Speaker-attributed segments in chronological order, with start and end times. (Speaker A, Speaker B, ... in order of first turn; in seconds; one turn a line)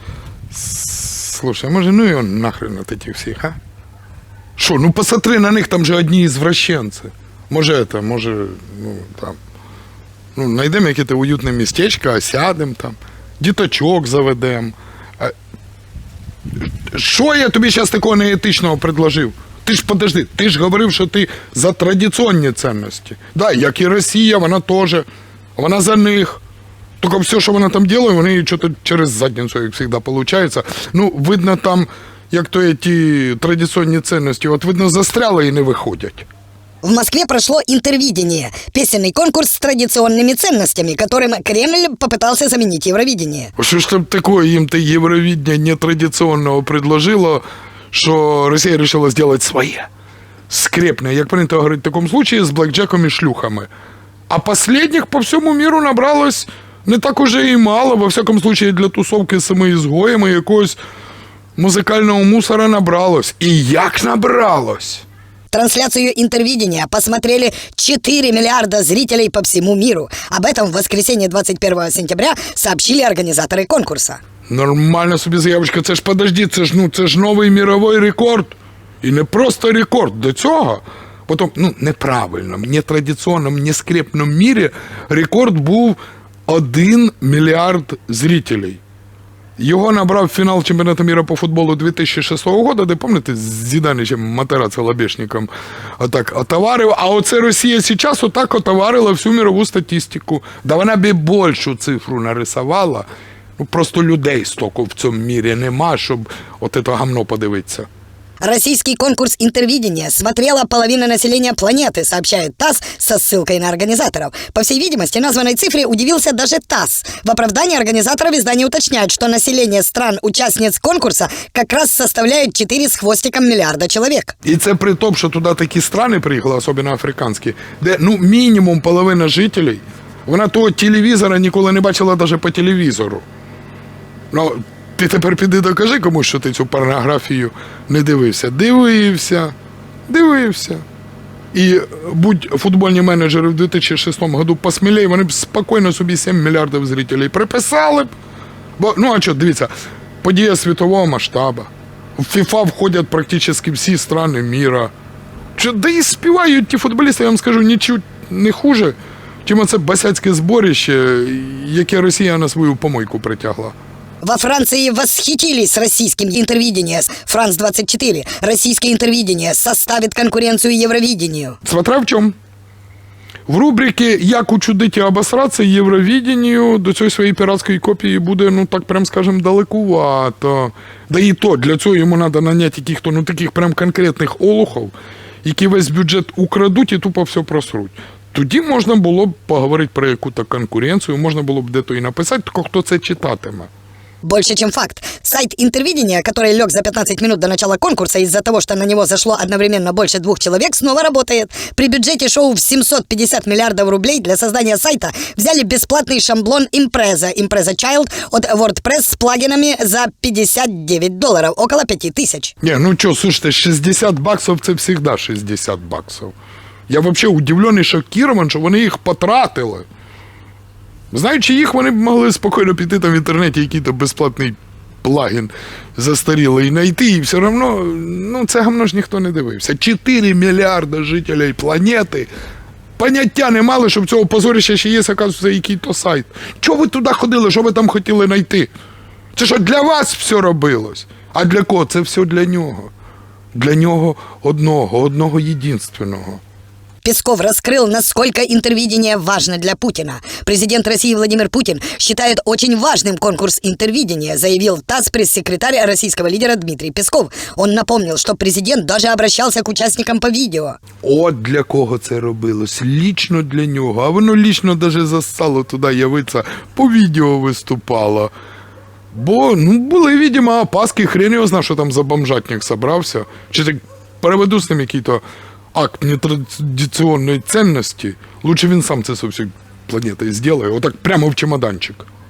Speaker A: 0.5-3.6
Speaker A: 4.6-9.4
Speaker A: 10.3-15.3
Speaker A: 16.6-25.1
Speaker A: 25.6-26.4
Speaker A: 27.0-36.3
Speaker B: 36.8-43.5
Speaker A: 43.6-49.9
Speaker A: 50.5-53.7
Speaker A: 54.3-60.8
Speaker A: 61.6-65.0
Speaker B: 65.5-74.2
Speaker A: 74.5-88.8
Speaker A: 89.6-103.1
Speaker A: 103.6-107.9
Speaker B: 108.4-124.3
Speaker A: 124.5-133.2
Speaker A: 134.3-139.6
Speaker A: 140.1-140.8
Speaker A: 141.5-148.1
Speaker A: 148.8-149.7
Speaker A: 150.2-154.9
Speaker A: 155.6-163.7
Speaker B: 164.2-171.6
Speaker A: 171.7-172.3
Speaker A: 173.5-184.9
Speaker A: 185.4-193.7
Speaker B: 194.2-212.5
Speaker A: 212.6-216.3
Speaker A: 216.9-219.9
Speaker A: 221.1-232.3
Speaker A: 233.0-238.7
Speaker A: 239.3-242.9
Speaker A: 243.5-246.4
Speaker B: 247.0-260.8
Speaker A: 261.0-268.3
Speaker A: 269.1-275.2
Speaker A: 275.7-282.1